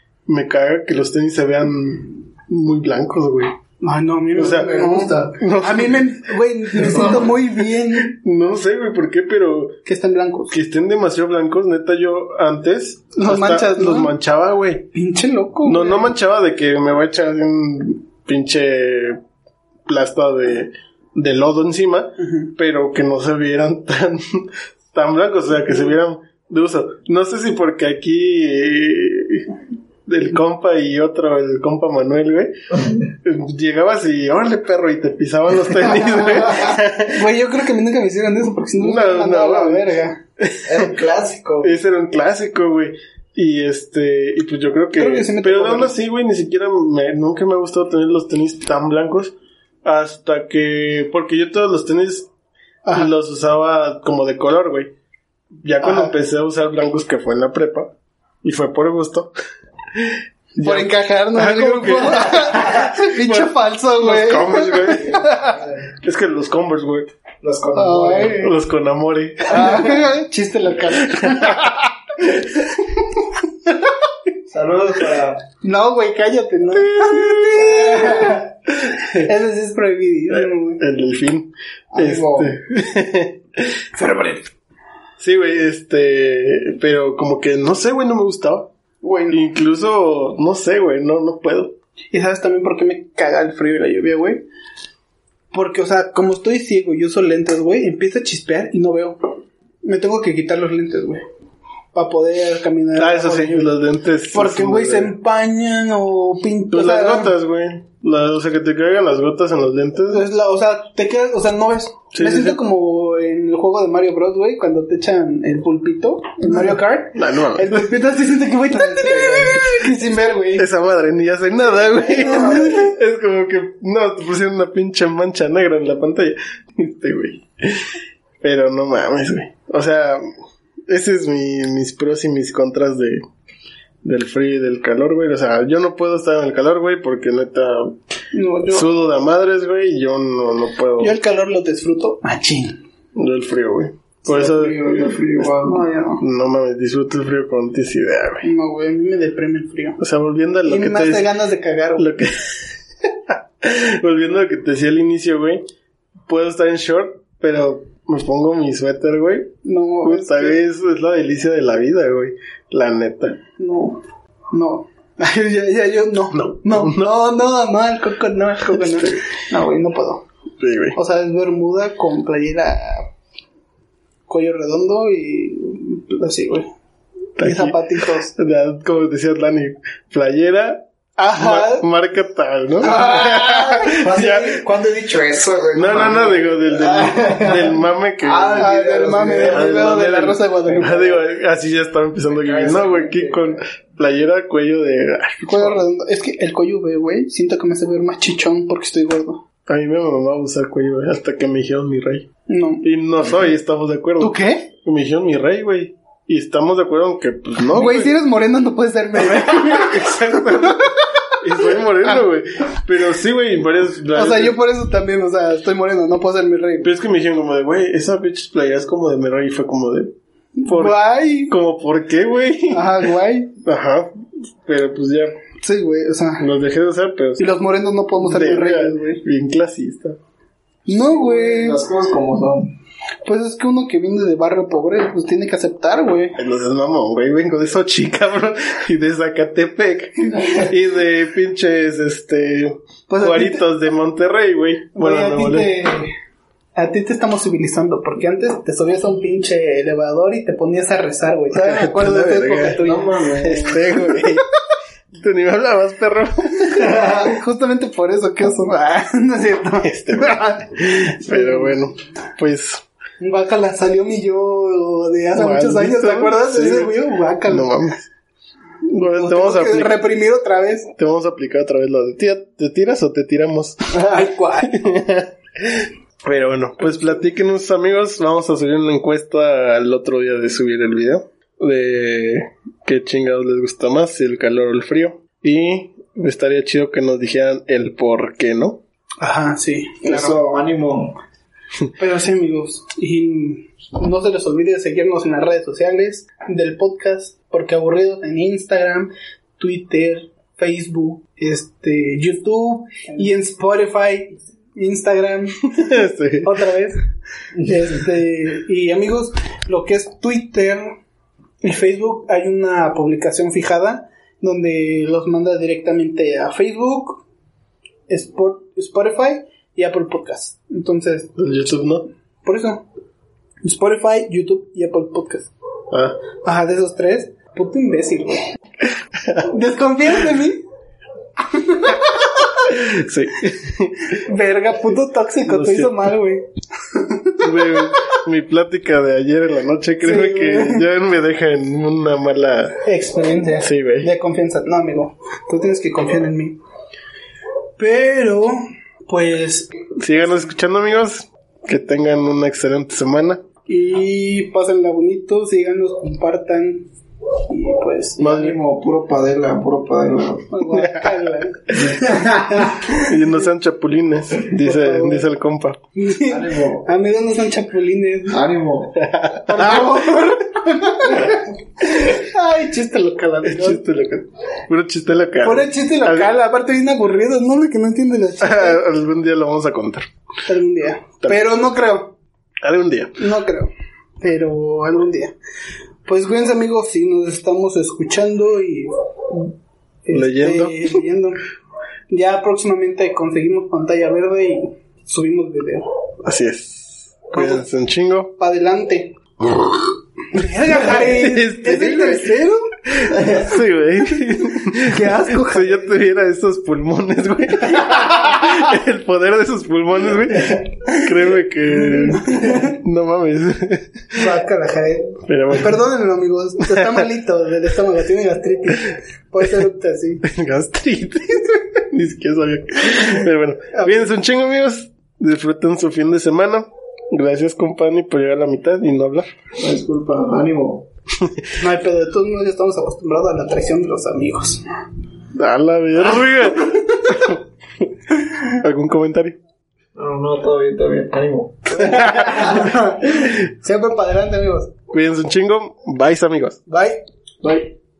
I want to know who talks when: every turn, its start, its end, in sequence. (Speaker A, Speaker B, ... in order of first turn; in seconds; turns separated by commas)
Speaker A: 0.3-3.6, Speaker B: 3.8-8.2, Speaker A: 4.3-7.4, Speaker C: 4.4-5.3, Speaker C: 6.8-7.3, Speaker A: 7.9-9.8, Speaker B: 9.8-10.6, Speaker A: 10.5-14.9, Speaker B: 13.1-14.2, Speaker B: 14.9-16.1, Speaker A: 15.6-19.2, Speaker A: 19.9-29.5, Speaker B: 22.2-22.5, Speaker A: 30.1-32.5, Speaker A: 33.2-37.3, Speaker B: 36.4-40.2, Speaker A: 38.8-40.9, Speaker C: 40.6-41.7, Speaker A: 41.6-52.3, Speaker B: 45.0-45.9, Speaker B: 52.8-53.1, Speaker A: 52.9-54.9, Speaker A: 55.6-57.9, Speaker B: 55.8-56.1, Speaker A: 58.4-59.3, Speaker A: 59.9-65.3, Speaker B: 60.5-65.6, Speaker C: 65.0-65.9, Speaker A: 65.9-67.1, Speaker C: 67.4-68.5, Speaker B: 67.7-68.5, Speaker A: 68.4-69.9, Speaker B: 69.5-71.9, Speaker C: 69.5-70.1, Speaker A: 70.9-72.6, Speaker C: 74.5-75.4, Speaker B: 75.6-78.5, Speaker A: 76.7-79.3, Speaker B: 79.2-80.8, Speaker A: 80.3-84.3, Speaker C: 81.9-82.5, Speaker A: 85.2-88.7, Speaker B: 89.0-89.4, Speaker A: 89.3-91.7, Speaker B: 92.1-94.5, Speaker B: 95.5-101.2, Speaker B: 101.9-103.7, Speaker A: 103.0-105.1, Speaker B: 104.3-107.4, Speaker A: 106.7-110.3, Speaker B: 110.1-120.7, Speaker A: 112.1-112.6, Speaker A: 117.1-118.1, Speaker C: 119.0-119.6, Speaker A: 119.1-120.0, Speaker A: 120.5-130.3, Speaker B: 122.2-122.8, Speaker A: 130.9-133.2, Speaker A: 134.0-138.0, Speaker B: 138.3-138.9, Speaker A: 138.7-141.2, Speaker B: 141.0-142.8, Speaker A: 143.1-145.6, Speaker C: 144.3-145.8, Speaker B: 145.6-146.2, Speaker A: 146.2-148.5, Speaker B: 148.4-150.0, Speaker A: 150.0-151.3, Speaker B: 150.7-152.1, Speaker A: 152.0-155.6, Speaker A: 156.3-163.4, Speaker B: 159.6-160.6, Speaker B: 163.6-170.2, Speaker A: 166.3-167.1, Speaker A: 168.7-169.2, Speaker A: 170.6-171.0, Speaker B: 170.9-173.1, Speaker B: 174.3-176.7, Speaker A: 177.4-184.6, Speaker B: 177.4-178.3, Speaker B: 181.2-181.8, Speaker C: 182.8-190.1, Speaker A: 185.7-195.8, Speaker B: 188.6-191.1, Speaker C: 190.7-191.2, Speaker C: 192.3-193.6, Speaker B: 195.4-199.4, Speaker A: 199.7-202.3, Speaker B: 202.5-202.9, Speaker A: 202.8-208.1, Speaker B: 204.2-204.7, Speaker B: 207.7-212.2, Speaker A: 209.1-214.6, Speaker B: 214.1-216.9, Speaker A: 216.8-220.1, Speaker B: 220.6-221.5, Speaker A: 220.6-223.1, Speaker B: 222.7-223.5, Speaker A: 223.6-225.4, Speaker B: 225.6-226.4, Speaker A: 226.4-227.5, Speaker B: 227.4-229.2, Speaker A: 228.2-230.2, Speaker B: 230.8-231.8, Speaker C: 230.9-232.7, Speaker B: 233.2-236.4, Speaker A: 236.3-245.7, Speaker B: 243.1-243.6, Speaker B: 244.9-246.1, Speaker B: 246.7-253.4, Speaker A: 251.5-252.8, Speaker C: 252.8-253.8, Speaker A: 253.4-254.4, Speaker B: 253.9-254.3, Speaker A: 255.1-257.2, Speaker B: 256.6-261.8, Speaker A: 259.8-262.8, Speaker B: 263.2-267.9, Speaker A: 265.3-268.1, Speaker A: 268.9-270.1, Speaker B: 269.0-270.9, Speaker A: 270.9-273.8, Speaker B: 273.9-274.8, Speaker A: 274.6-288.8, Speaker B: 289.2-290.4, Speaker C: 290.0-291.2, Speaker B: 292.0-307.0, Speaker A: 305.8-306.5, Speaker B: 307.6-311.0, Speaker B: 311.6-317.2, Speaker B: 318.1-321.3, Speaker A: 321.4-322.1, Speaker B: 322.4-322.9, Speaker B: 323.6-325.5, Speaker A: 325.9-326.2, Speaker B: 326.4-328.4, Speaker A: 329.2-329.4, Speaker B: 329.4-330.6, Speaker B: 331.5-332.4, Speaker A: 332.6-334.2, Speaker B: 334.1-337.9, Speaker A: 335.5-336.2, Speaker A: 337.4-342.8, Speaker B: 340.0-340.9, Speaker B: 342.8-346.6, Speaker A: 343.6-344.1, Speaker B: 347.8-348.5, Speaker B: 349.1-349.7, Speaker A: 350.0-353.4, Speaker B: 353.7-356.9, Speaker B: 357.5-358.5, Speaker C: 358.2-360.6, Speaker A: 358.2-358.5, Speaker B: 360.5-363.1, Speaker A: 360.7-362.1, Speaker A: 362.9-365.8, Speaker B: 364.6-365.3, Speaker B: 365.9-368.4, Speaker C: 366.2-366.9, Speaker C: 368.3-369.1, Speaker A: 369.0-370.3, Speaker B: 369.4-373.8, Speaker A: 373.4-376.4, Speaker B: 375.4-378.8, Speaker A: 378.4-380.1, Speaker B: 380.5-382.1, Speaker A: 382.6-383.2, Speaker B: 383.2-385.3, Speaker B: 386.0-389.5, Speaker B: 390.0-391.4, Speaker A: 390.1-391.0, Speaker B: 392.1-395.9, Speaker A: 396.2-398.3, Speaker B: 397.3-397.7, Speaker B: 398.4-399.2, Speaker B: 400.3-402.7, Speaker A: 400.7-414.2, Speaker B: 404.6-405.9, Speaker B: 411.9-412.7, Speaker B: 414.1-420.2, Speaker A: 415.2-415.8, Speaker A: 416.7-417.1, Speaker A: 420.2-429.3, Speaker B: 423.7-424.1, Speaker C: 429.6-430.9, Speaker B: 431.6-434.6, Speaker A: 435.3-437.9, Speaker A: 438.5-439.4, Speaker C: 439.9-442.5, Speaker B: 441.7-444.7, Speaker A: 441.8-442.3, Speaker A: 444.9-446.6, Speaker B: 446.7-447.0, Speaker A: 447.4-447.7